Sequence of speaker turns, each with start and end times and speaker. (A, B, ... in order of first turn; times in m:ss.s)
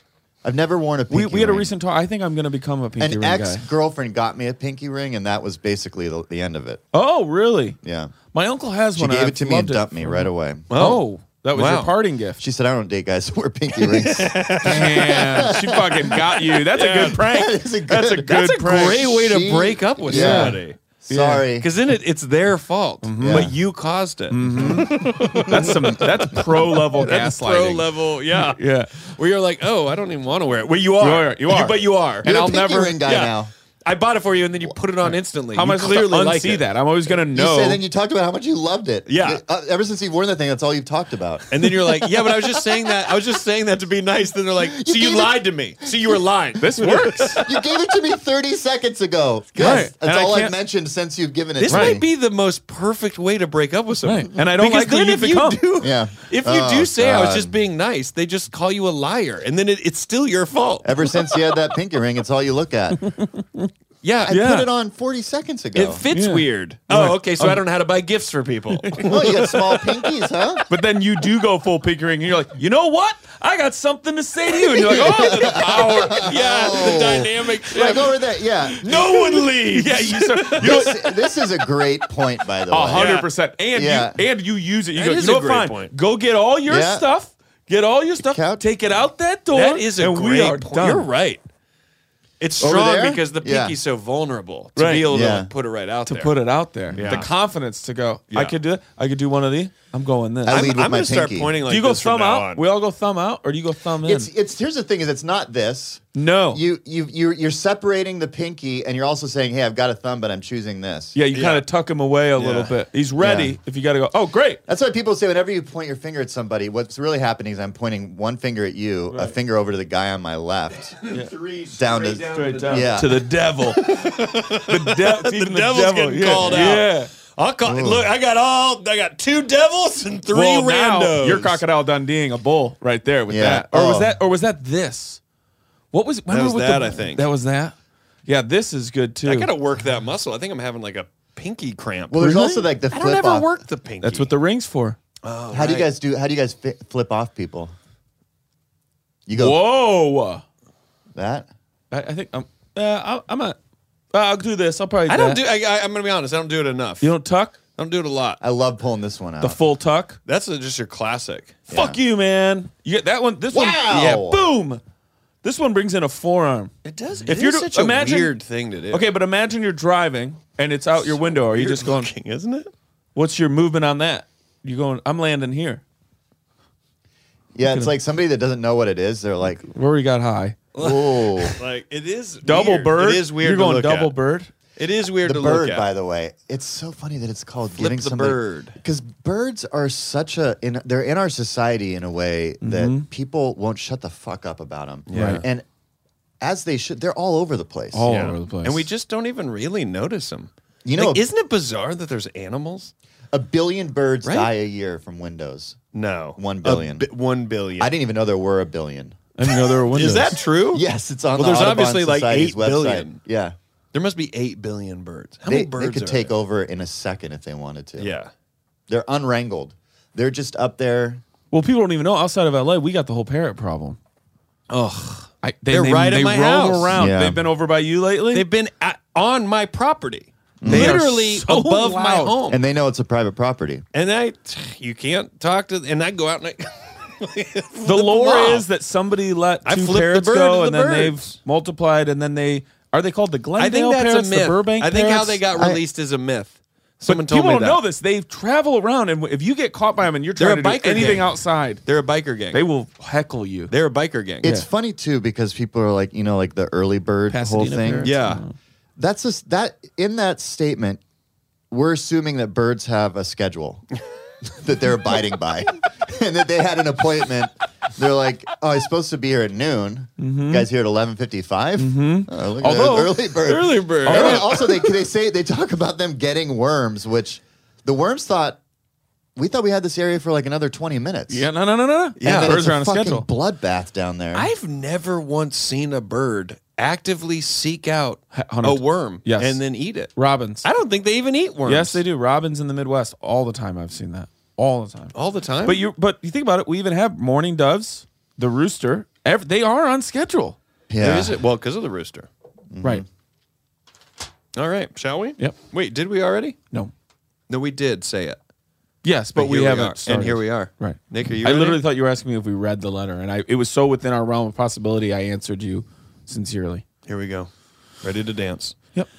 0:00.4-0:01.7 A
0:01.1-0:03.6 B
0:03.0-0:06.8 A
0:06.9-0:07.8 B
0:07.8-0:08.1 A
0:08.3-0:12.4 B
0:08.9-0:10.7 A
0:10.7-0:11.9 C
0:12.4-0:16.4 A
0:13.8-0:15.3 C
0:14.6-0:19.0 B
0:16.7-0:17.3 C
0:17.2-0:21.7 A
0:18.1-0:20.8 C
0:20.0-0:20.6 B
0:21.1-0:21.4 B
0:21.6-0:36.6 C
0:23.0-0:23.5 B
0:23.2-0:23.5 A
0:24.3-0:27.9 B
0:24.4-0:26.1 A
0:28.4-0:29.0 B
0:31.0-0:32.9 B
0:32.2-0:33.5 A
0:35.5-0:37.8 B
0:37.3-0:43.2 A
0:39.0-0:39.4 C
0:41.5-0:47.6 C
0:44.6-0:45.9 A
0:46.6-0:47.4 B
0:47.4-0:52.0 A
0:49.6-0:50.5 B
0:51.6-0:52.0 B
0:51.6-1:00.9 C
0:54.0-0:55.6 B
0:55.8-0:57.6 A
1:00.8-1:03.1 A
1:03.0-1:03.7 B
1:04.0-1:04.4 C
1:04.2-1:06.0 A
1:04.3-1:04.7 B
1:05.7-1:09.5 C
1:06.1-1:07.6 B
1:08.8-1:09.1 B
1:09.0-1:10.6 A
1:10.7-1:16.3 B
1:14.8-1:19.2 A
1:16.1-1:18.1 C
1:18.8-1:21.0 B
1:18.8-1:21.0 C
1:20.6-1:23.1 A
1:22.7-1:31.1 B
1:22.9-1:23.2 C
1:23.7-1:24.2 A
1:24.9-1:25.9 C
1:26.6-1:27.1 A
1:28.2-1:28.6 A
1:29.5-1:31.4 C
1:32.4-1:36.3 C
1:32.6-1:33.8 A
1:34.8-1:35.0 B
1:35.1-1:35.5 A
1:36.1-1:40.6 B
1:36.9-1:37.2 A
1:36.9-1:37.3 C
1:38.3-1:38.6 C
1:40.4-1:41.6 A
1:40.5-1:42.6 C
1:41.7-1:44.3 B
1:44.0-1:51.2 A
1:46.1-1:46.6 B
1:51.1-1:54.6 B
1:51.3-1:51.6 C
1:52.4-1:52.7 C
1:53.2-1:53.6 A
1:54.6-2:01.0 A
2:01.0-2:02.9 C
2:01.8-2:03.2 A
2:02.0-2:07.1 B
2:03.7-2:11.6 C
2:07.6-2:08.1 A
2:10.3-2:15.2 B
2:13.3-2:14.1 A
2:15.9-2:17.7 B
2:16.3-2:17.3 C
2:18.2-2:19.5 B
2:19.2-2:22.2 C
2:22.1-2:23.5 A
2:22.2-2:22.7 B
2:22.9-2:24.3 C
2:24.0-2:25.0 B
2:25.2-2:25.9 C
2:25.5-2:27.7 A
2:29.3-2:29.6 A
2:29.4-2:30.4 B
2:31.1-2:31.5 A
2:31.9-2:33.6 B
2:34.1-2:35.4 B
2:35.1-2:37.2 C
2:37.0-2:37.6 B
2:37.7-2:38.4 C
2:38.4-2:39.6 A
2:39.4-2:40.2 B
2:40.2-2:41.6 C
2:41.7-2:42.0 A
2:41.7-2:44.8 B
2:43.5-2:44.5 A
2:45.4-2:46.7 B
2:46.8-2:49.1 C
2:47.3-2:48.3 B
2:48.9-2:52.1 B
2:51.0-2:52.7 C
2:53.1-2:55.8 B
2:57.5-2:59.7 A
2:57.7-2:57.9 B
2:59.7-3:00.7 B
3:00.8-3:04.1 C
3:00.8-3:01.6 A
3:02.4-3:04.5 B
3:04.8-3:05.9 C
3:05.2-3:15.6 A
3:07.8-3:08.8 C
3:12.6-3:13.1 B
3:15.1-3:15.4 C
3:15.1-3:15.4 B
3:16.4-3:18.1 A
3:17.9-3:18.8 B
3:18.1-3:22.9 C
3:20.8-3:21.2 A
3:23.3-3:25.8 A
3:24.2-3:24.5 C
3:25.9-3:27.9 C
3:26.4-3:27.1 A
3:27.8-3:29.2 A
3:29.4-3:30.3 B
3:29.9-3:30.8 C
3:30.7-3:33.6 A
3:31.4-3:33.2 C
3:33.9-3:36.3 C
3:35.5-3:38.1 A
3:38.0-3:38.3 C
3:38.9-3:41.2 A
3:41.5-3:44.0 B
3:44.7-3:46.9 C
3:45.4-3:48.4 B
3:46.9-3:47.4 A
3:48.3-3:52.6 C
3:50.6-3:51.0 A
3:50.6-3:52.3 B
3:52.5-3:53.8 A
3:53.9-3:58.6 C
3:57.8-4:05.4 B
3:59.6-4:01.4 C
4:03.6-4:07.8 C
4:05.5-4:05.8 A
4:07.0-4:11.8 B
4:10.4-4:11.3 C
4:11.8-4:12.6 C
4:12.5-4:13.7 B
4:13.7-4:14.5 C
4:14.4-4:18.2 A
4:17.3-4:18.5 B
4:18.0-4:18.4 C
4:19.0-4:21.0 A
4:21.7-4:23.8 A
4:24.4-4:38.6 A
4:30.2-4:30.7 B
4:31.8-4:34.6 B
4:33.8-4:34.5 C
4:39.4-4:41.5 A
4:41.3-4:43.3 B
4:42.2-4:42.6 C
4:42.2-4:44.5 A
4:44.3-4:52.0 C
4:48.3-4:50.6 B
4:51.6-4:55.1 B
4:55.1-4:55.8 C
4:55.6-5:00.6 B
5:00.9-5:01.4 A
5:01.0-5:02.3 C
5:02.7-5:03.0 A
5:04.5-5:06.6 C
5:07.5-5:08.4 C
5:09.0-5:16.8 B
5:09.3-5:11.8 C
5:17.0-5:17.5 C
5:18.0-5:18.8 C